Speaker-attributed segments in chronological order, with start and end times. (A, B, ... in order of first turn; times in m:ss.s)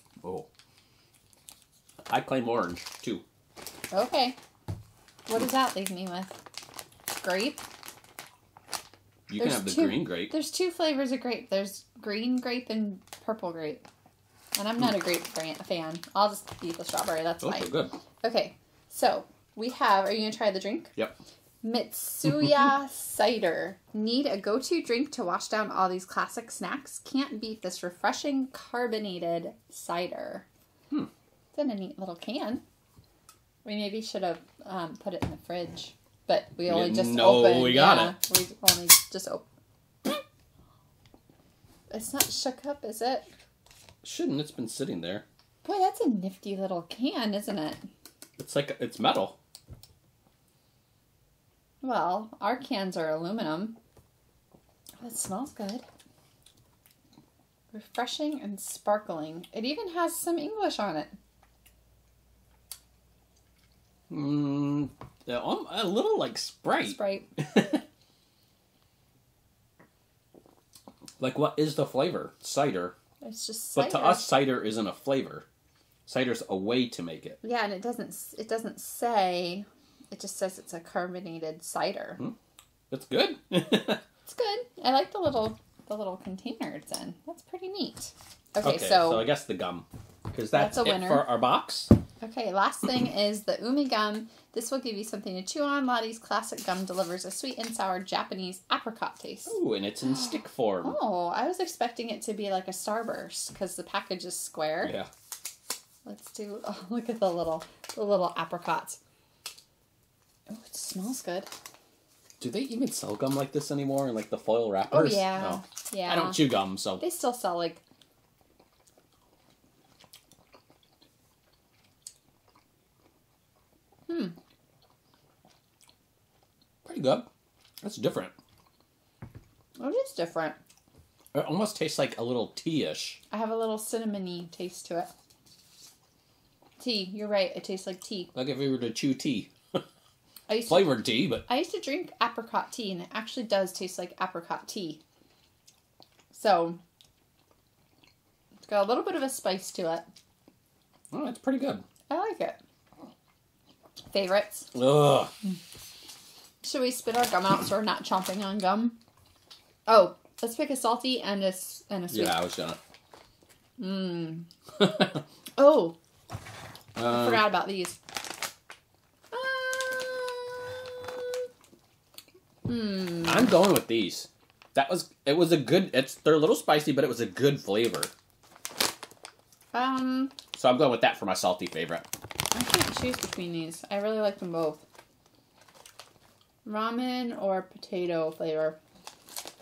0:00.2-0:00.5 A
0:02.1-0:03.2 A
0:03.9-0:04.4 B
0:05.3-0:06.4 B
0:07.1-0:07.6 B
0:09.3-0:10.3 A
0:09.4-0:13.8 B
0:14.6-0:20.9 B
0:17.4-0:17.9 A
0:21.6-0:30.5 B
0:31.5-0:32.6 B
0:33.6-0:39.4 B
0:36.7-0:38.2 A
0:41.9-0:43.3 B
0:44.0-0:45.2 A
0:45.6-0:47.8 B
0:48.4-0:49.4 A
0:51.8-0:53.8 B
0:55.0-0:55.8 B
0:57.7-1:01.1 B
1:04.1-1:07.8 A
1:06.8-1:07.3 B
1:11.2-1:13.0 A
1:13.2-1:14.3 B
1:13.8-1:15.4 A
1:16.1-1:17.4 A
1:17.4-1:22.2 B
1:22.9-1:24.0 A
1:24.3-1:29.3 B
1:28.6-1:31.9 A
1:30.5-1:31.3 B
1:32.2-1:39.6 B
1:39.5-1:41.0 A
1:40.8-1:45.0 B
1:44.8-1:45.1 A
1:46.1-1:49.0 B
1:50.5-1:51.5 B
1:52.4-1:57.0 A
1:54.9-1:57.8 B
2:04.1-2:04.4 B
2:06.8-2:07.3 A
2:07.8-2:08.3 A
2:09.8-2:10.6 B
2:11.3-2:13.2 A
2:13.3-2:15.1 B
2:16.8-2:18.3 B
2:18.3-2:19.8 A
2:20.5-2:25.0 B
2:20.7-2:21.4 A
2:26.3-2:26.8 B
2:28.7-2:30.1 B
2:31.1-2:31.8 A
2:32.1-2:32.6 B
2:34.1-2:34.7 B
2:34.7-2:35.3 A
2:36.6-2:39.0 B
2:39.9-2:42.4 B
2:42.1-2:42.8 A
2:43.8-2:44.5 B
2:44.8-2:45.2 A
2:45.6-2:46.0 B
2:47.0-2:47.5 A
2:47.0-2:48.0 B
2:49.3-2:51.4 B
2:52.7-2:53.5 B
2:53.2-2:58.1 A
2:59.7-3:00.3 B
3:00.5-3:02.1 A
3:02.5-3:04.8 B
3:06.6-3:08.8 B